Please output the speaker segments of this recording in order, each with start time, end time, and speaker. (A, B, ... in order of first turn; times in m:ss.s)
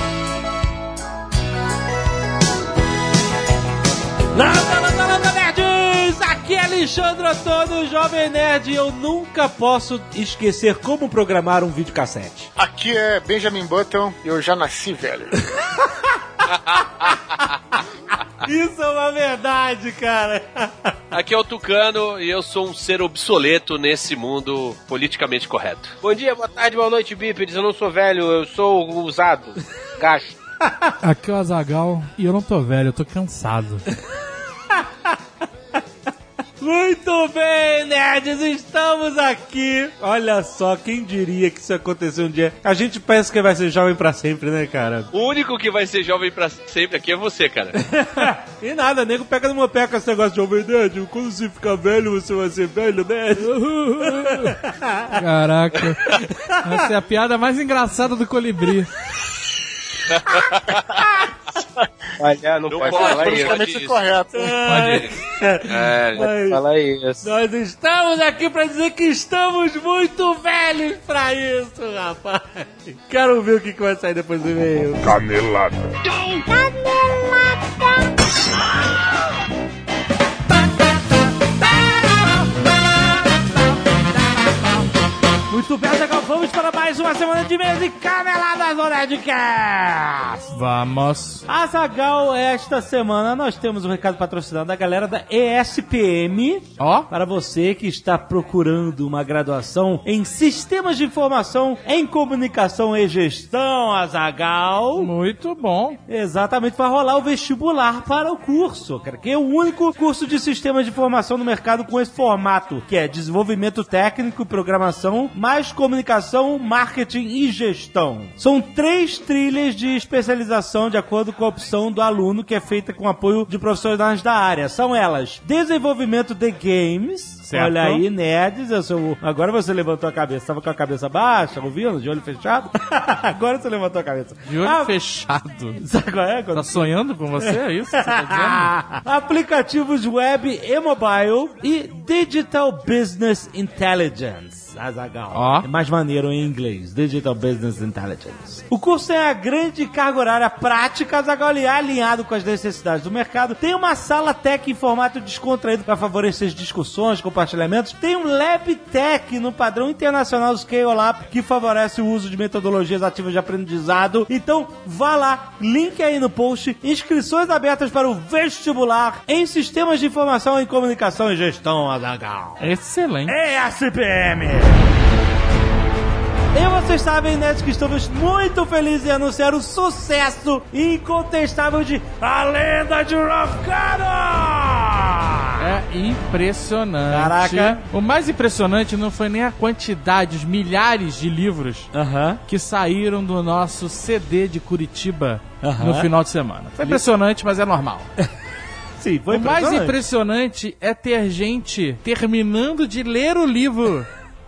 0:04.3-0:12.5 A
0:12.6-0:15.5 B
0:15.7-0:16.5 A
0:18.4-0:21.0 A
0:21.1-0:26.0 C
0:26.0-0:30.3 D
0:30.6-0:30.9 A
0:31.0-0:33.8 E
0:34.7-0:35.2 A
0:36.6-0:45.1 A
0:45.1-0:47.8 C
0:47.8-0:55.2 A
0:53.4-0:54.6 E
0:55.1-0:58.9 E
0:56.1-0:56.7 A
1:00.2-1:00.6 C
1:00.9-1:01.3 A
1:02.2-1:03.7 D
1:02.6-1:04.0 C
1:02.8-1:04.8 B
1:04.3-1:06.6 A
1:04.6-1:06.3 C
1:06.2-1:07.3 D
1:07.2-1:15.2 A
1:15.2-1:15.7 B
1:16.0-1:17.8 A
1:21.7-1:22.4 A
1:25.5-1:30.5 A
1:30.5-1:31.4 E
1:31.5-1:45.1 A
1:36.8-1:37.1 E
1:45.0-1:46.0 E
1:46.1-2:15.0 A
2:07.5-2:08.0 E
2:14.5-2:15.8 E
2:15.8-2:52.6 A
2:16.5-2:18.8 E
2:25.3-2:25.7 E
2:52.6-2:53.4 E
2:53.3-2:54.9 A
2:56.5-3:05.6 A
3:05.6-3:11.9 E
3:07.1-3:07.8 A
3:11.9-3:12.4 A
3:12.5-3:18.1 E
3:15.6-3:16.1 A
3:16.8-3:17.0 A
3:19.0-3:20.0 A
3:19.3-3:24.1 E